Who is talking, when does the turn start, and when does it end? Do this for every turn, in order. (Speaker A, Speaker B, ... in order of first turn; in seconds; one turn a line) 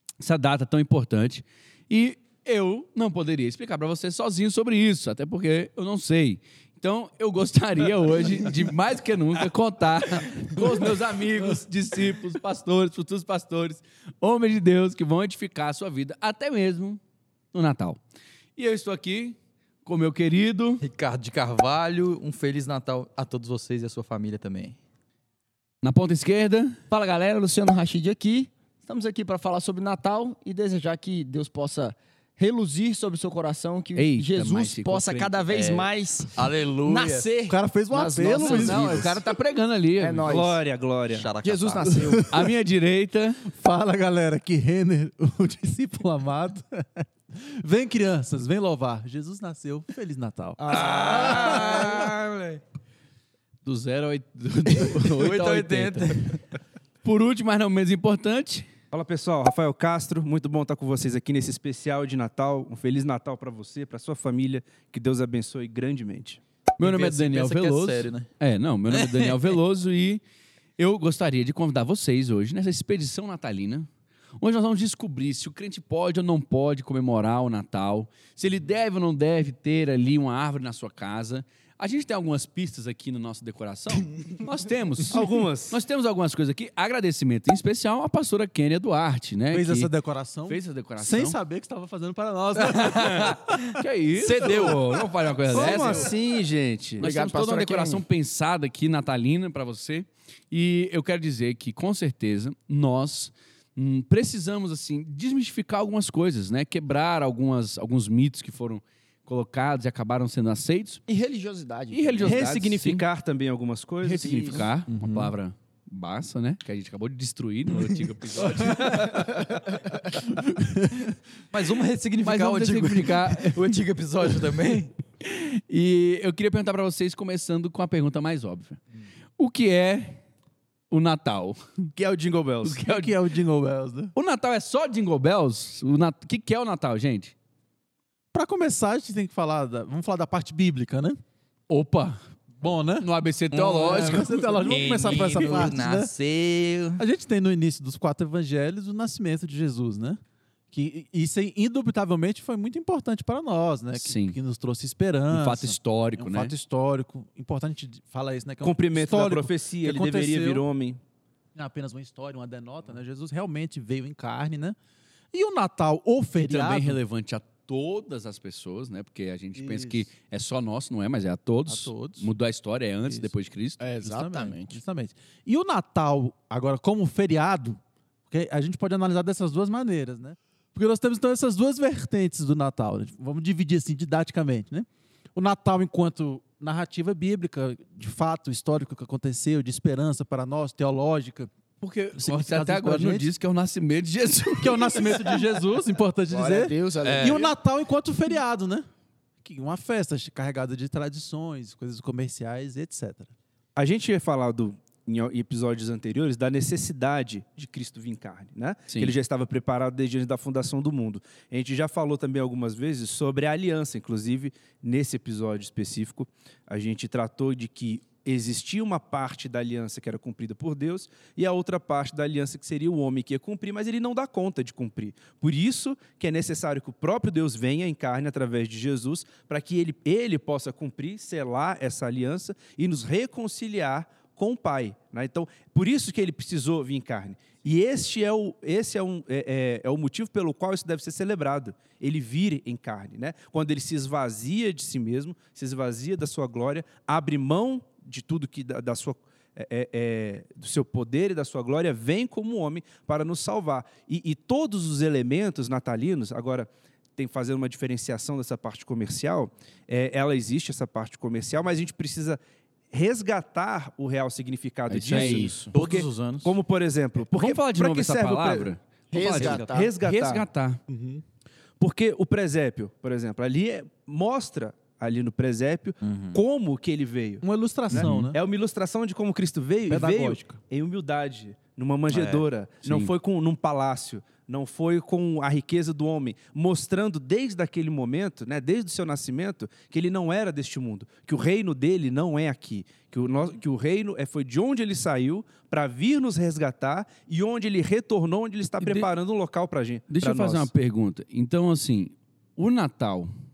Speaker A: 0.2-17.0
Speaker A: 17.5-18.0
Speaker A: 18.6-20.8
Speaker B: 20.8-24.8
Speaker A: 25.8-26.8
Speaker C: 26.9-39.2
Speaker A: 34.0-35.9
Speaker B: 36.4-37.3
Speaker D: 37.5-39.2
Speaker A: 38.4-40.3
Speaker C: 40.0-40.6
Speaker E: 40.3-41.3
Speaker B: 41.1-42.0
Speaker C: 41.4-42.3
Speaker D: 42.0-42.5
Speaker A: 42.3-43.4
Speaker D: 43.4-50.9
Speaker C: 50.6-52.1
Speaker E: 50.8-52.6
Speaker A: 50.9-52.0
Speaker A: 53.6-56.4
Speaker B: 54.7-56.4
Speaker A: 57.0-58.7
Speaker E: 58.9-66.4
Speaker A: 66.8-70.2
Speaker B: 66.8-68.3
Speaker B: 68.9-69.3
Speaker A: 70.8-73.9
Speaker A: 74.4-89.9
Speaker E: 85.1-85.8
Speaker D: 89.5-93.8
Speaker A: 90.5-91.4
Speaker A: 92.7-96.1
Speaker B: 94.2-96.0
Speaker E: 95.5-97.0
Speaker C: 97.0-98.0
Speaker A: 97.0-111.0
Speaker C: 111.1-112.5
Speaker A: 111.9-113.0
Speaker E: 112.2-114.7
Speaker A: 114.0-119.5
Speaker D: 114.9-115.3
Speaker B: 117.8-119.5
Speaker D: 118.7-119.1
Speaker D: 120.8-121.0
Speaker B: 121.5-124.9
Speaker A: 122.2-123.8
Speaker A: 125.2-128.8
Speaker A: 129.4-130.2
Speaker A: 130.9-131.9
Speaker E: 131.9-132.8
Speaker A: 132.6-133.1
Speaker D: 132.8-134.1
Speaker A: 134.1-137.3
Speaker D: 138.3-141.2
Speaker A: 141.7-142.2
Speaker D: 142.6-146.1
Speaker A: 143.0-145.4
Speaker B: 143.8-147.0
Speaker D: 147.0-150.2
Speaker D: 150.7-160.6
Speaker A: 153.9-154.4
Speaker A: 155.3-156.5
Speaker E: 158.6-161.0
Speaker D: 161.5-164.8
Speaker D: 165.3-167.0
Speaker A: 166.4-173.8
Speaker D: 169.6-170.1
Speaker D: 171.7-172.3
Speaker D: 173.0-173.3
Speaker C: 173.8-174.8
Speaker D: 174.0-177.8
Speaker D: 178.3-191.5
Speaker A: 191.8-195.4
Speaker D: 192.2-193.3
Speaker D: 194.6-198.9
Speaker C: 196.3-197.5
Speaker B: 197.0-197.4
Speaker D: 199.4-203.3
Speaker E: 203.8-262.4
Speaker E: 262.9-268.7
Speaker A: 264.9-265.7
Speaker B: 265.1-266.5
Speaker A: 267.2-270.8
Speaker C: 269.1-269.9
Speaker E: 269.2-270.5
Speaker B: 269.4-269.7
Speaker D: 270.9-271.2
Speaker E: 271.8-300.7
Speaker B: 276.0-276.4
Speaker D: 277.4-278.4
Speaker A: 277.9-278.3
Speaker D: 279.9-280.6
Speaker B: 282.1-282.4
Speaker A: 282.8-283.1
Speaker A: 298.8-299.1
Speaker A: 300.1-303.3